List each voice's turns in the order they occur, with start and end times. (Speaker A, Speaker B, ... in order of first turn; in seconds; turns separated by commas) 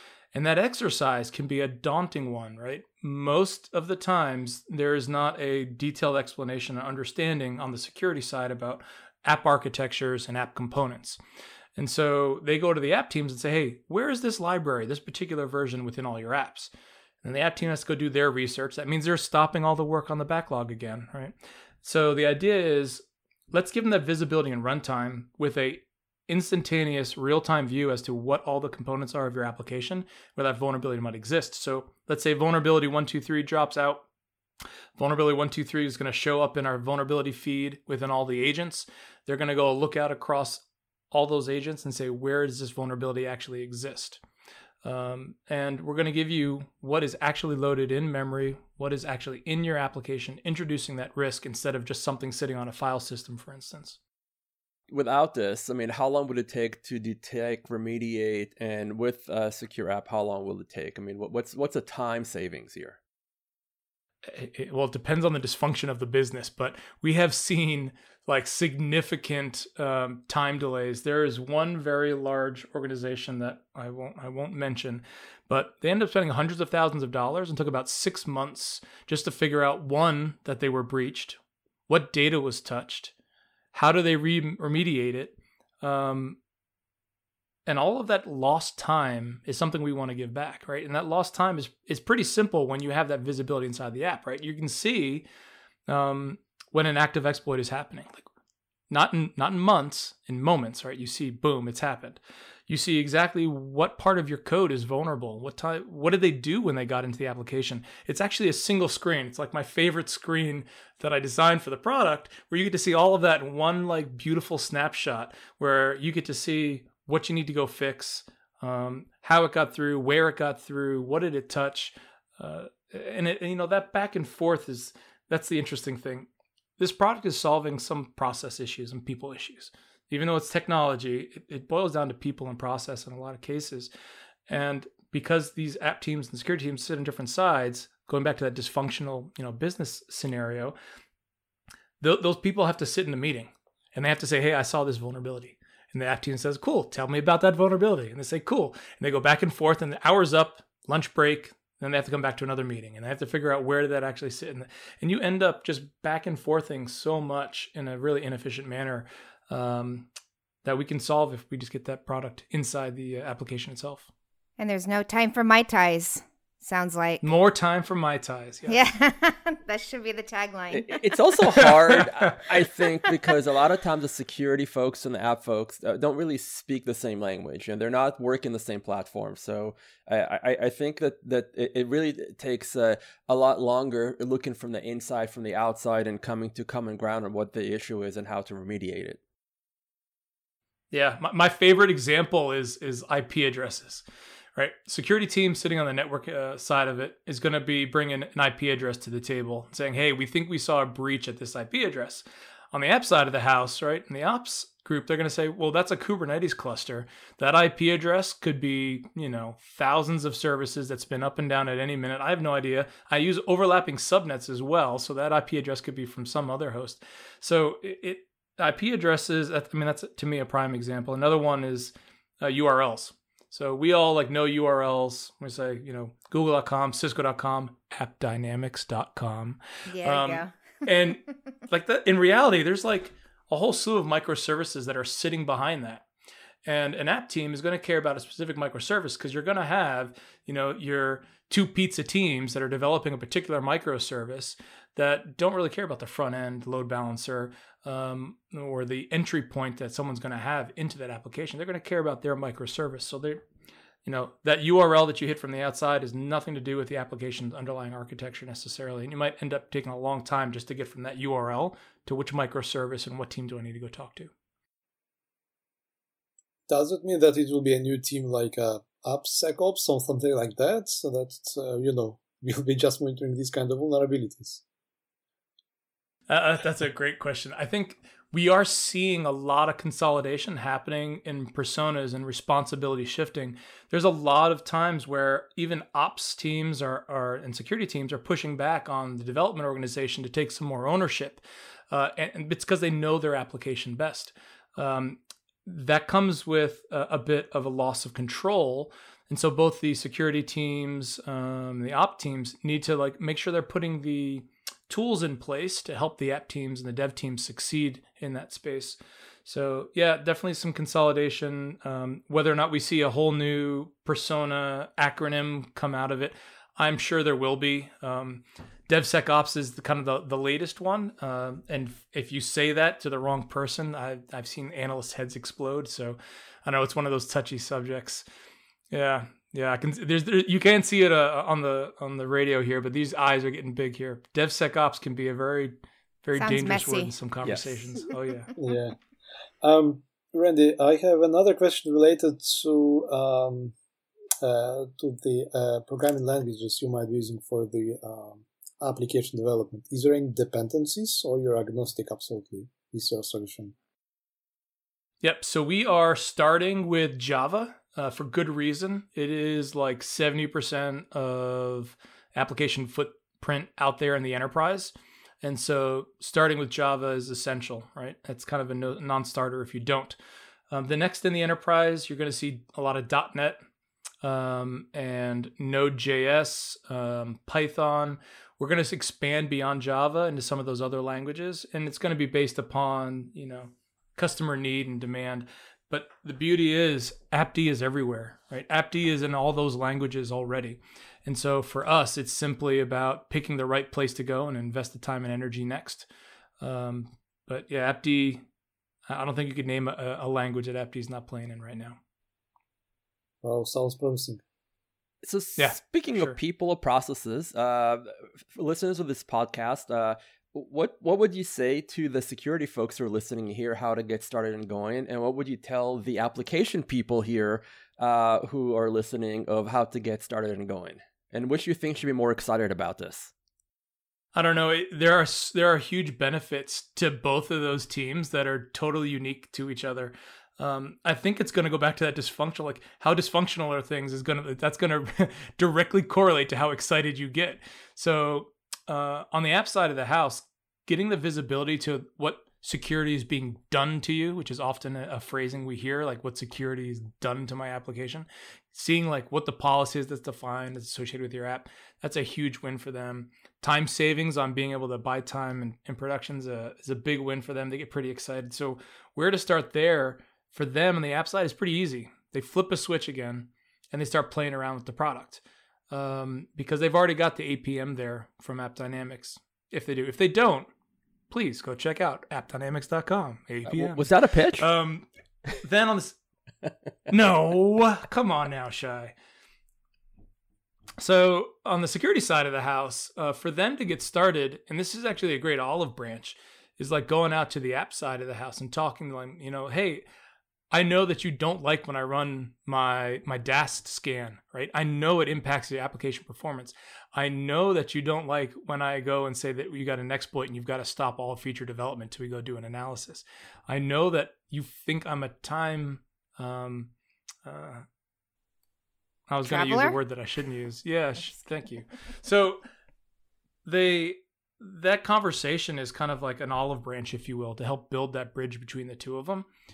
Speaker A: 0.3-11.2, Speaker A: 11.8-16.7, Speaker A: 17.2-34.0, Speaker A: 35.0-44.2, Speaker A: 44.8-54.0, Speaker B: 54.9-63.0, Speaker A: 64.2-83.1, Speaker A: 83.7-86.4, Speaker A: 87.7-95.2, Speaker A: 95.9-98.2, Speaker A: 98.9-133.9, Speaker A: 134.5-140.7, Speaker A: 142.0-160.1, Speaker A: 160.6-164.1, Speaker C: 164.6-167.3, Speaker A: 167.2-168.8, Speaker C: 168.7-171.1, Speaker B: 170.7-189.2, Speaker A: 171.5-172.3, Speaker A: 190.9-194.0, Speaker A: 194.6-236.0, Speaker C: 229.9-230.5, Speaker A: 236.6-253.4, Speaker A: 254.0-264.3, Speaker D: 266.7-274.6, Speaker A: 276.3-328.2, Speaker A: 328.9-338.5, Speaker C: 336.3-337.1, Speaker B: 337.4-337.8, Speaker D: 338.6-339.0, Speaker D: 339.6-343.7, Speaker D: 344.4-353.7, Speaker A: 355.2-370.2, Speaker A: 370.7-373.6, Speaker A: 374.2-396.1, Speaker A: 396.6-398.4, Speaker A: 399.1-402.0, Speaker D: 403.4-404.4, Speaker B: 405.2-423.3, Speaker A: 405.6-406.4, Speaker A: 424.3-470.7, Speaker A: 471.3-475.1, Speaker B: 473.6-474.7, Speaker A: 475.6-476.2, Speaker A: 477.1-479.1, Speaker A: 481.0-490.0, Speaker A: 490.7-506.9, Speaker A: 507.4-507.8, Speaker A: 509.3-512.6, Speaker C: 509.4-510.0, Speaker A: 513.6-519.5